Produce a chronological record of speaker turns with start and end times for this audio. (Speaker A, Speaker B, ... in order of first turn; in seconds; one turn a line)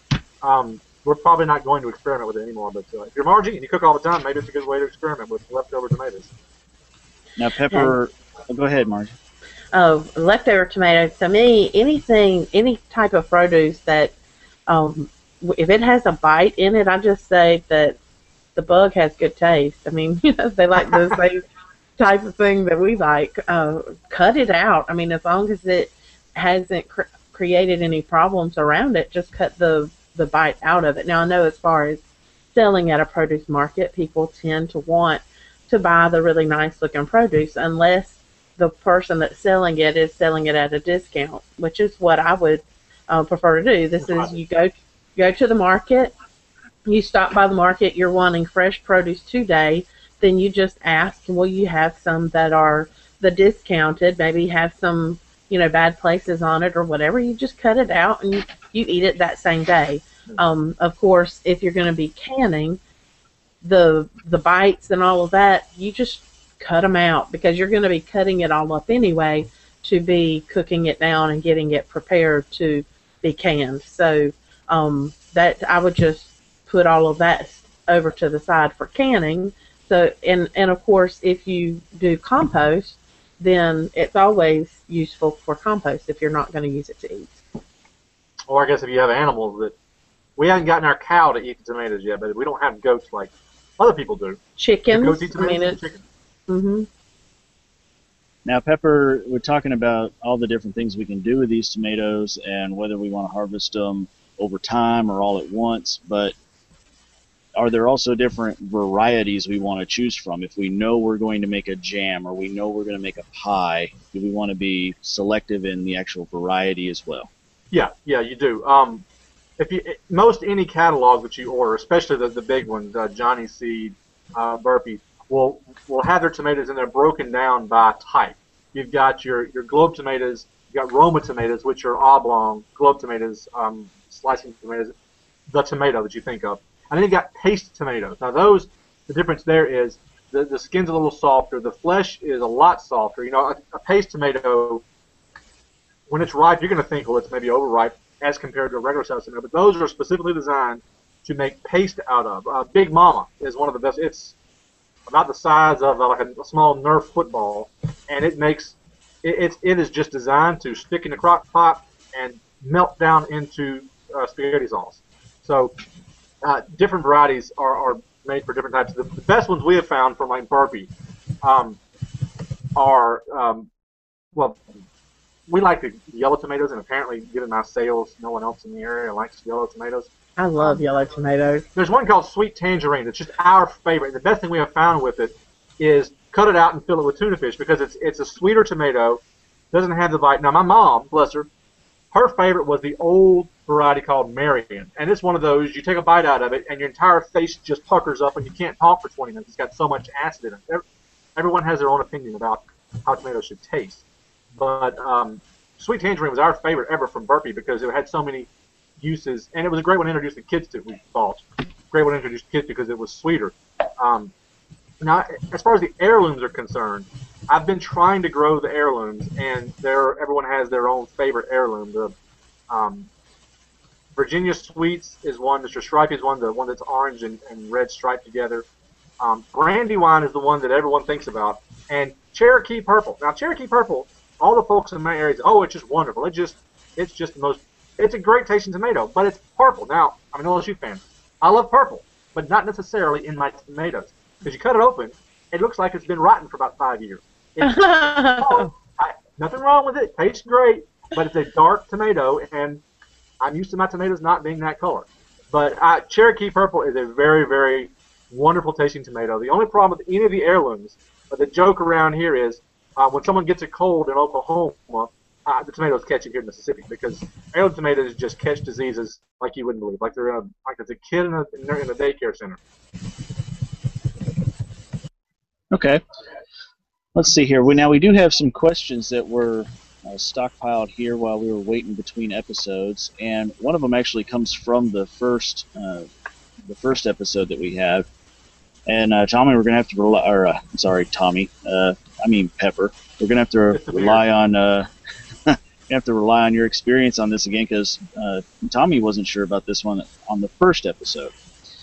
Speaker A: 0.4-6.3
Speaker B: 7.4-9.1
Speaker C: 9.7-14.1
Speaker C: 14.7-18.0
Speaker C: 18.6-21.4
Speaker C: 22.0-46.1
Speaker A: 44.1-44.3
Speaker C: 46.9-62.8
Speaker C: 63.6-87.4
Speaker A: 88.5-89.7
Speaker A: 90.4-96.0
Speaker C: 94.6-95.8
Speaker C: 96.5-96.9
Speaker B: 98.5-106.3
Speaker B: 107.6-117.3
Speaker A: 117.7-119.0
Speaker A: 119.6-134.9
Speaker A: 135.5-144.8
Speaker A: 146.1-154.3
Speaker A: 155.1-165.7
Speaker A: 166.4-170.9
Speaker A: 171.4-171.8
Speaker A: 172.8-173.7
Speaker A: 174.3-174.7
Speaker A: 175.5-180.8
Speaker C: 180.4-181.7
Speaker A: 181.8-189.2
Speaker A: 189.7-191.5
Speaker A: 192.1-200.8
Speaker A: 201.4-204.0
Speaker A: 204.5-208.5
Speaker A: 209.0-214.3
Speaker A: 215.0-222.1
Speaker A: 222.7-223.1
Speaker A: 224.2-228.7
Speaker A: 229.2-252.8
Speaker C: 247.6-248.7
Speaker A: 253.4-272.6
Speaker B: 275.7-276.0
Speaker B: 277.1-286.1
Speaker B: 286.7-288.1
Speaker B: 288.9-294.9
Speaker A: 293.7-294.2
Speaker B: 295.5-301.3